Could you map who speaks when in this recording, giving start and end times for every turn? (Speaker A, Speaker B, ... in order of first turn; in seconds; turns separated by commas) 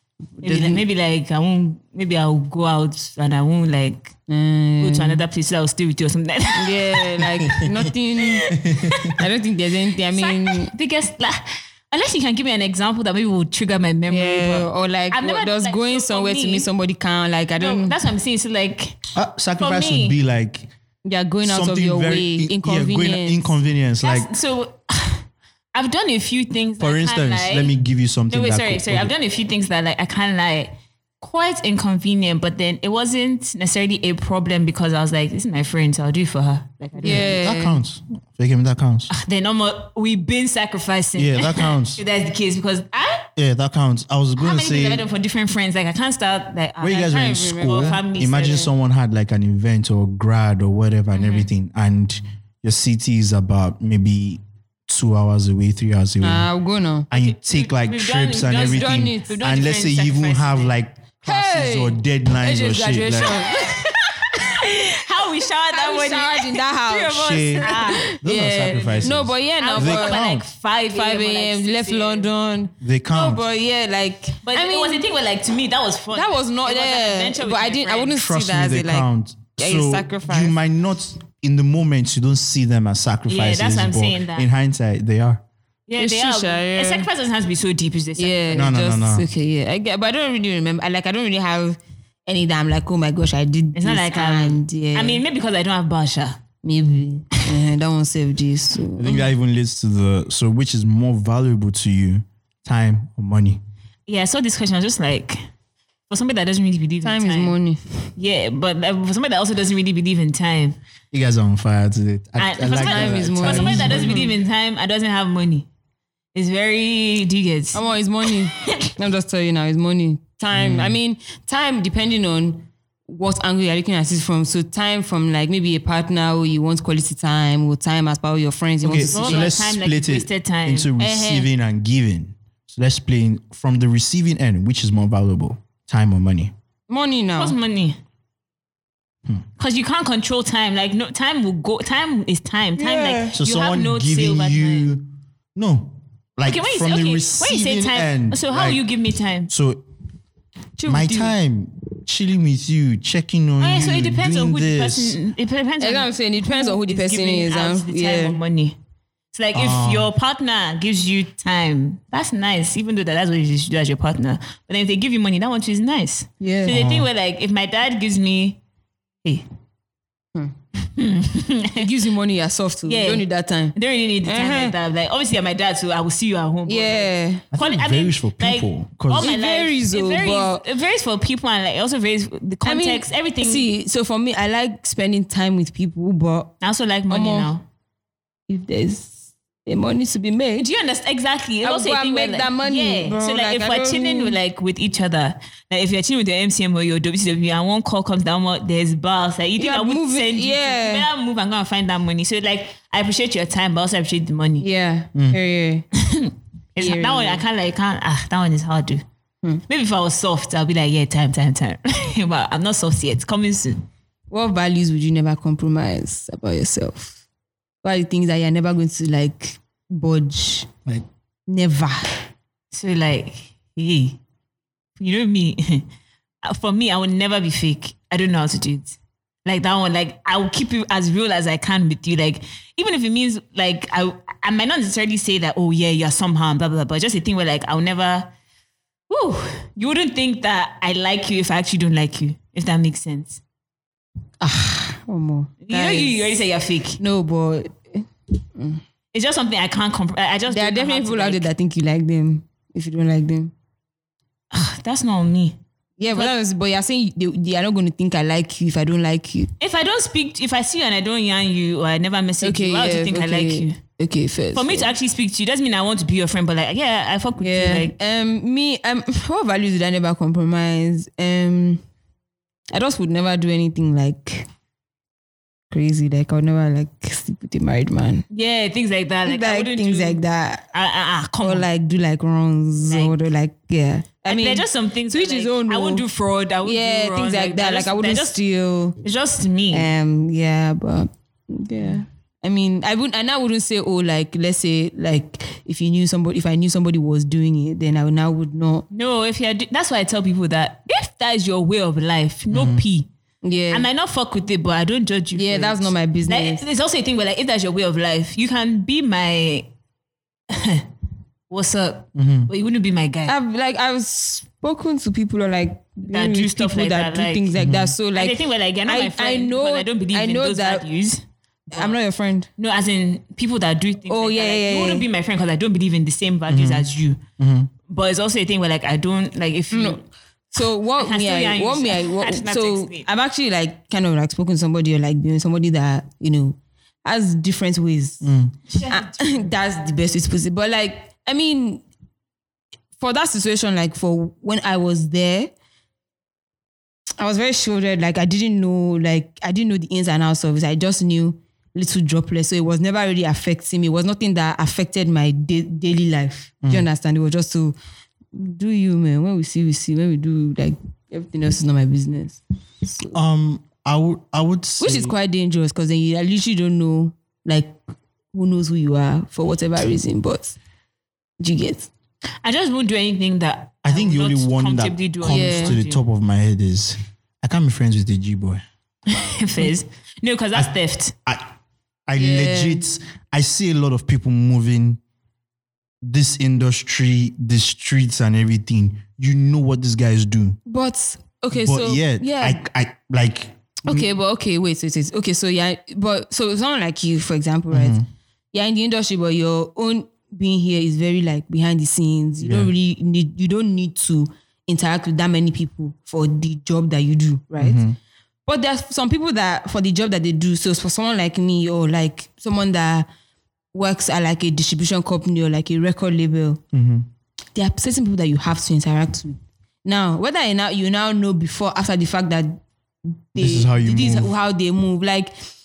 Speaker A: 0.4-0.8, Speaker B: 0.4-4.2, Speaker A: 4.3-5.2, Speaker B: 4.8-7.2, Speaker A: 6.5-10.7, Speaker C: 7.4-7.9, Speaker B: 8.2-9.1, Speaker C: 8.5-9.1, Speaker B: 10.1-16.7, Speaker A: 14.1-17.9, Speaker B: 17.6-19.1, Speaker C: 19.1-20.7, Speaker B: 19.6-20.2, Speaker A: 21.1-23.6, Speaker C: 21.4-24.3, Speaker B: 24.0-25.2, Speaker B: 25.7-27.7, Speaker C: 26.8-29.1, Speaker B: 28.3-37.4, Speaker A: 37.0-37.8, Speaker C: 37.0-39.1, Speaker B: 39.1-43.3, Speaker C: 41.2-42.0, Speaker C: 43.4-45.1, Speaker B: 44.4-48.7, Speaker C: 46.8-56.5, Speaker A: 47.1-48.0, Speaker B: 51.1-51.5, Speaker A: 56.2-57.1, Speaker C: 57.1-63.5, Speaker B: 57.1-60.7, Speaker A: 58.5-59.4, Speaker A: 61.2-64.5, Speaker B: 64.3-72.3, Speaker A: 65.7-70.2, Speaker C: 67.1-70.5, Speaker A: 70.9-75.0, Speaker C: 72.8-73.5, Speaker B: 74.4-78.2, Speaker A: 76.1-80.5, Speaker C: 78.1-85.4, Speaker B: 83.3-84.5, Speaker B: 85.9-88.7, Speaker A: 86.0-87.1, Speaker A: 88.2-95.2, Speaker C: 88.5-89.3, Speaker B: 93.8-96.4, Speaker A: 96.6-99.3, Speaker C: 99.0-103.6, Speaker B: 104.1-105.4, Speaker B: 106.1-107.5, Speaker A: 107.0-108.1, Speaker B: 108.2-110.8, Speaker C: 111.1-114.3, Speaker B: 112.4-115.7, Speaker A: 112.7-114.3, Speaker B: 116.3-118.9, Speaker A: 117.7-129.5, Speaker C: 120.5-121.0, Speaker C: 128.8-136.5, Speaker B: 129.1-131.0, Speaker A: 131.0-131.4, Speaker A: 136.9-137.6, Speaker B: 137.4-138.0, Speaker B: 139.6-144.9, Speaker A: 142.8-143.4, Speaker C: 143.3-148.8, Speaker B: 146.5-149.5, Speaker C: 149.5-149.8, Speaker A: 150.8-151.3, Speaker C: 150.9-155.2, Speaker B: 153.6-158.8, Speaker A: 155.8-158.4, Speaker B: 159.3-168.6, Speaker C: 159.5-160.1, Speaker A: 166.4-166.8, Speaker C: 166.7-167.1, Speaker B: 170.9-171.9, Speaker A: 171.7-174.8, Speaker B: 172.9-183.7, Speaker A: 176.7-177.4, Speaker C: 177.5-179.3, Speaker A: 179.2-180.6, Speaker A: 182.7-186.5, Speaker B: 186.6-187.6, Speaker A: 187.1-187.5, Speaker A: 188.5-190.7, Speaker B: 190.6-204.7, Speaker A: 191.6-194.4, Speaker A: 199.6-201.1, Speaker A: 204.6-205.9, Speaker B: 205.9-209.0, Speaker A: 206.8-207.4, Speaker B: 209.7-213.8, Speaker A: 214.3-217.2, Speaker A: 217.8-220.7, Speaker A: 221.5-222.2, Speaker B: 222.7-224.2, Speaker B: 225.0-225.9, Speaker B: 226.4-238.3, Speaker B: 239.1-243.4, Speaker A: 244.4-246.4, Speaker B: 245.6-247.0, Speaker A: 247.0-248.8, Speaker B: 249.1-251.5, Speaker A: 250.5-253.5, Speaker B: 254.5-255.6, Speaker A: 256.0-259.5, Speaker B: 259.6-263.8, Speaker A: 262.4-264.9, Speaker B: 264.5-267.9, Speaker A: 267.4-271.8, Speaker A: 272.7-274.5, Speaker A: 275.7-278.2, Speaker B: 278.3-280.2, Speaker A: 279.2-280.7, Speaker B: 280.7-281.7, Speaker A: 281.4-286.1, Speaker B: 282.8-283.1, Speaker B: 284.3-288.4, Speaker A: 286.6-289.0, Speaker B: 289.0-289.9, Speaker A: 289.7-298.9, Speaker B: 298.9-303.1, Speaker C: 302.5-302.8, Speaker A: 303.4-303.9, Speaker B: 303.7-309.7, Speaker A: 305.3-306.6, Speaker B: 310.5-310.9, Speaker B: 311.5-313.4, Speaker C: 312.2-312.5, Speaker A: 313.3-320.9, Speaker B: 316.1-317.5, Speaker C: 317.6-317.9, Speaker B: 318.1-321.2, Speaker A: 321.7-322.5, Speaker B: 322.6-327.2, Speaker A: 324.1-325.1, Speaker C: 326.5-326.9, Speaker C: 327.4-327.7, Speaker B: 327.9-330.0, Speaker A: 329.7-338.3, Speaker B: 331.0-333.1, Speaker C: 338.2-338.5, Speaker B: 338.7-339.5, Speaker A: 338.9-341.8, Speaker A: 343.0-345.5, Speaker A: 347.2-357.8, Speaker A: 358.3-363.1, Speaker C: 363.1-365.1, Speaker A: 364.8-367.8, Speaker A: 368.3-370.6, Speaker A: 371.4-371.9, Speaker B: 372.4-376.0, Speaker C: 373.8-378.6, Speaker A: 375.2-375.8, Speaker B: 379.1-381.1, Speaker C: 382.1-385.0, Speaker A: 382.2-382.8, Speaker C: 386.0-390.6, Speaker A: 390.7-392.6, Speaker C: 391.5-394.1, Speaker A: 393.9-398.0, Speaker C: 397.7-398.1, Speaker A: 398.5-407.8, Speaker C: 402.4-402.7, Speaker C: 407.6-408.0, Speaker A: 408.5-413.1, Speaker A: 413.7-416.6, Speaker C: 416.7-417.1, Speaker A: 417.6-422.6, Speaker A: 423.3-425.3, Speaker C: 423.4-424.3